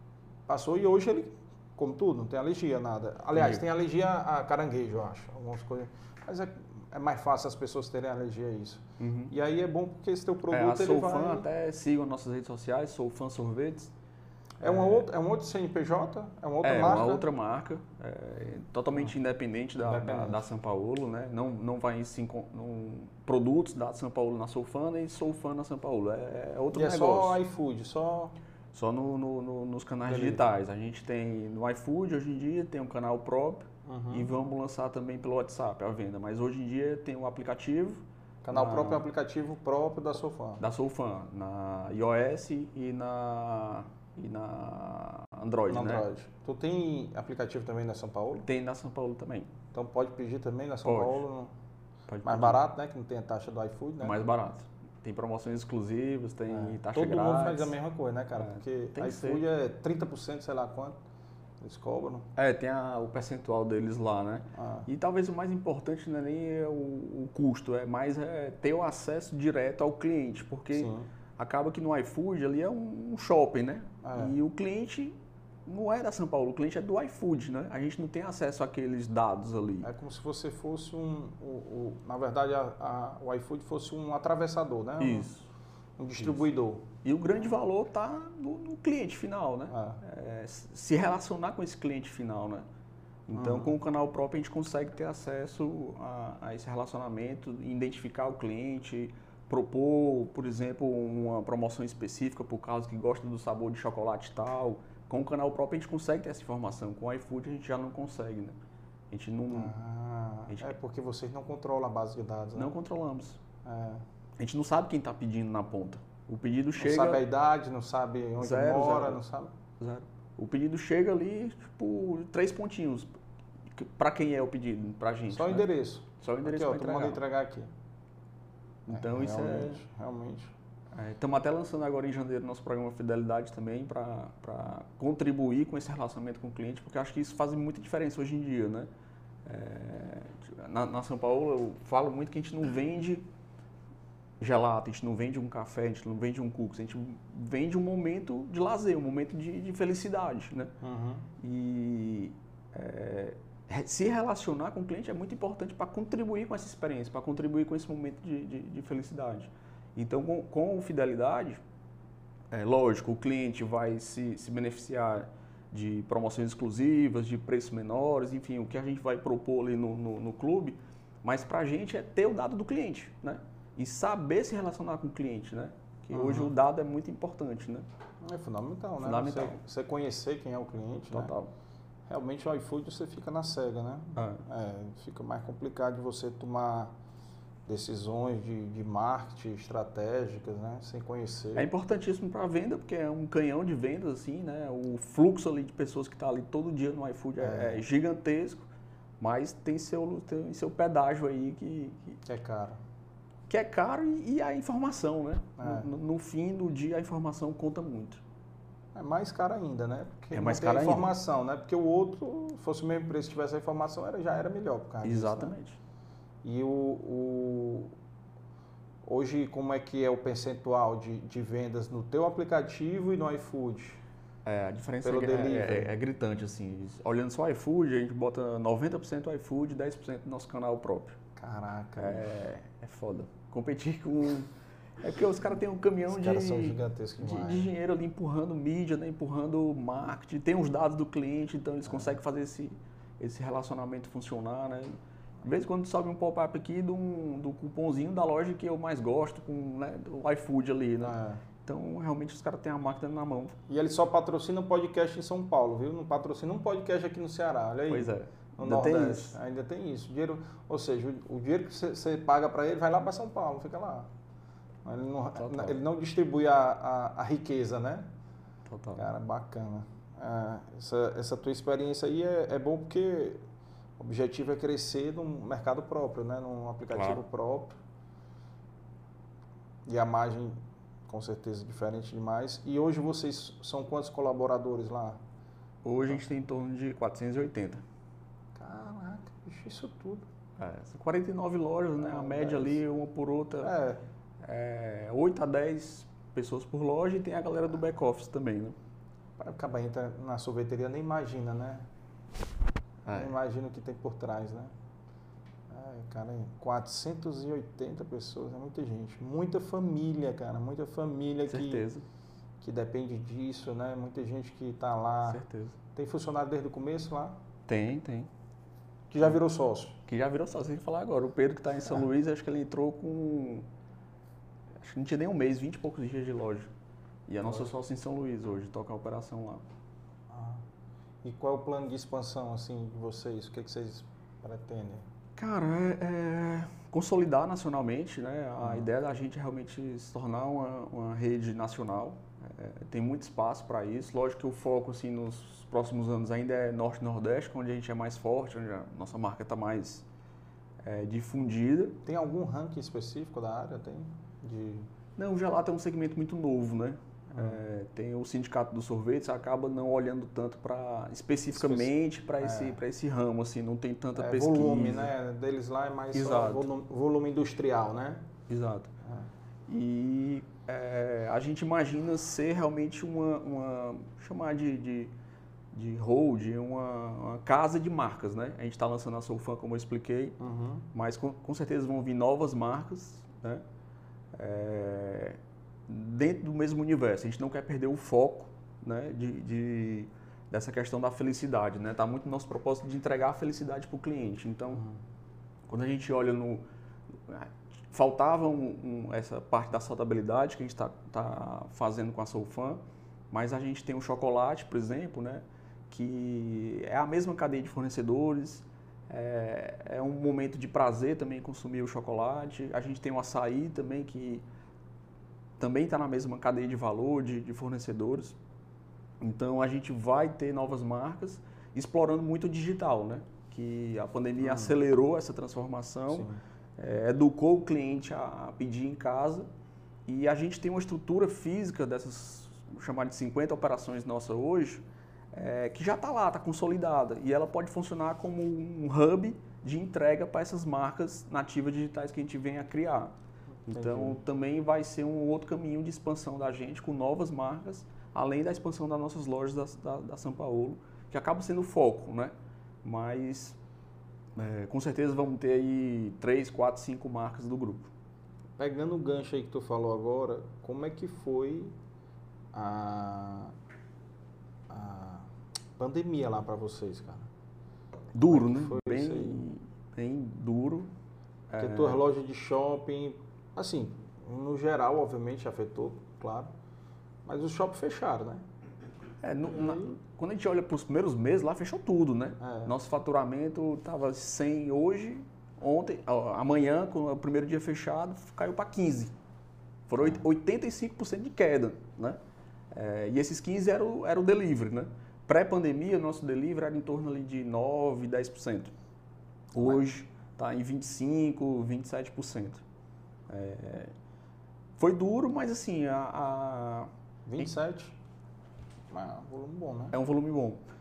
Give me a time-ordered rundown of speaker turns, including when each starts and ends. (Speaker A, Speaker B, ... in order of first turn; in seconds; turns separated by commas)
Speaker A: 0.5-11.4, Speaker B: 3.4-3.6, Speaker B: 9.0-9.3, Speaker B: 10.5-13.9, Speaker B: 14.6-15.0, Speaker A: 14.6-17.3, Speaker B: 16.6-27.4, Speaker A: 19.8-20.4, Speaker A: 26.7-28.4, Speaker B: 28.7-39.0, Speaker A: 30.1-30.4, Speaker A: 33.9-34.3, Speaker A: 38.4-40.6, Speaker B: 40.6-46.0, Speaker A: 45.7-48.5, Speaker B: 48.4-49.5, Speaker A: 49.7-51.5, Speaker B: 50.9-51.2, Speaker B: 52.1-52.6, Speaker A: 52.2-54.2, Speaker B: 54.0-57.7, Speaker A: 56.5-61.0, Speaker B: 58.4-59.4, Speaker A: 61.6-62.3, Speaker B: 62.4-79.9, Speaker A: 64.5-64.9, Speaker A: 70.7-71.1, Speaker A: 74.0-74.3, Speaker A: 79.8-85.3, Speaker B: 85.0-85.4, Speaker A: 86.0-86.9, Speaker B: 87.0-92.6, Speaker A: 89.7-90.0, Speaker B: 93.3-108.5, Speaker A: 93.3-93.7, Speaker B: 109.1-109.7, Speaker A: 109.5-112.7, Speaker B: 110.5-110.7, Speaker B: 112.5-113.4, Speaker A: 113.6-114.0, Speaker B: 114.4-117.2, Speaker A: 116.8-119.5, Speaker B: 118.4-119.2, Speaker B: 119.8-123.1, Speaker B: 123.7-125.6, Speaker A: 125.3-127.7, Speaker B: 126.2-127.2, Speaker B: 128.9-129.8, Speaker A: 128.9-130.5, Speaker B: 130.9-138.9, Speaker B: 139.4-143.2, Speaker B: 144.4-150.7, Speaker A: 150.8-151.3, Speaker B: 151.4-161.6, Speaker B: 162.5-177.9, Speaker A: 176.1-176.5, Speaker A: 178.2-181.3, Speaker B: 179.0-179.6, Speaker B: 181.1-181.5, Speaker A: 182.1-186.9, Speaker B: 184.2-184.4, Speaker A: 187.7-191.7, Speaker B: 191.6-198.7, Speaker A: 197.4-197.8, Speaker B: 199.2-202.2, Speaker A: 202.3-202.8, Speaker B: 203.5-208.2, Speaker A: 205.6-205.9, Speaker A: 208.9-215.6, Speaker B: 210.3-211.1, Speaker B: 215.0-215.8, Speaker A: 216.4-217.9, Speaker A: 219.1-224.0, Speaker B: 224.4-231.2, Speaker A: 225.0-225.9, Speaker A: 231.4-232.3, Speaker B: 232.0-253.6, Speaker A: 236.1-237.7, Speaker A: 241.9-242.1, Speaker A: 251.0-251.4, Speaker A: 253.7-264.1, Speaker B: 257.9-259.4, Speaker A: 264.8-268.1, Speaker B: 265.4-265.8, Speaker B: 268.7-269.1, Speaker A: 268.9-273.4, Speaker A: 274.0-277.8, Speaker B: 276.9-277.2, Speaker A: 279.9-285.2, Speaker B: 285.8-287.8, Speaker A: 288.6-290.2, Speaker B: 290.6-293.7, Speaker A: 291.9-292.8, Speaker A: 293.6-294.0, Speaker B: 294.4-298.8, Speaker A: 299.4-301.9, Speaker B: 303.1-303.4, Speaker A: 303.1-304.7, Speaker A: 305.7-311.9, Speaker B: 311.5-312.1, Speaker A: 312.6-315.4, Speaker B: 315.3-315.8, Speaker A: 315.9-317.4, Speaker B: 317.7-318.3, Speaker A: 319.1-320.0, Speaker B: 320.1-323.7, Speaker B: 324.8-326.7, Speaker B: 327.3-329.6, Speaker A: 330.3-330.6, Speaker A: 331.2-335.1, Speaker B: 335.4-350.1, Speaker A: 338.6-338.9, Speaker B: 350.8-352.0, Speaker A: 352.0-354.9, Speaker B: 355.2-365.1, Speaker A: 357.3-357.6, Speaker A: 361.5-362.8, Speaker A: 364.2-368.3, Speaker B: 366.1-366.7, Speaker B: 368.5-368.9, Speaker A: 369.0-369.3, Speaker B: 369.7-375.1, Speaker B: 375.7-380.4, Speaker A: 380.4-380.9, Speaker B: 380.9-383.6, Speaker B: 384.3-394.9, Speaker B: 395.7-396.6, Speaker B: 397.3-414.4, Speaker B: 415.6-418.4, Speaker B: 419.2-429.5, Speaker A: 424.4-424.8, Speaker A: 426.1-426.4, Speaker B: 430.1-443.1, Speaker B: 443.7-452.3, Speaker A: 443.7-444.2, Speaker B: 452.8-453.6, Speaker B: 454.4-457.9, Speaker A: 458.6-461.8, Speaker A: 462.5-463.6, Speaker A: 464.7-467.3, Speaker B: 468.1-470.9, Speaker A: 468.2-469.4, Speaker B: 471.5-472.0, Speaker A: 471.6-476.5, Speaker A: 477.2-478.4, Speaker B: 479.2-489.1, Speaker A: 479.5-479.9, Speaker A: 482.4-482.7, Speaker B: 489.9-492.2, Speaker B: 492.7-498.7, Speaker A: 499.6-499.8, Speaker B: 499.6-502.6, Speaker B: 503.3-503.9, Speaker B: 504.8-507.5, Speaker A: 507.3-508.0, Speaker A: 508.9-510.0, Speaker B: 509.9-510.6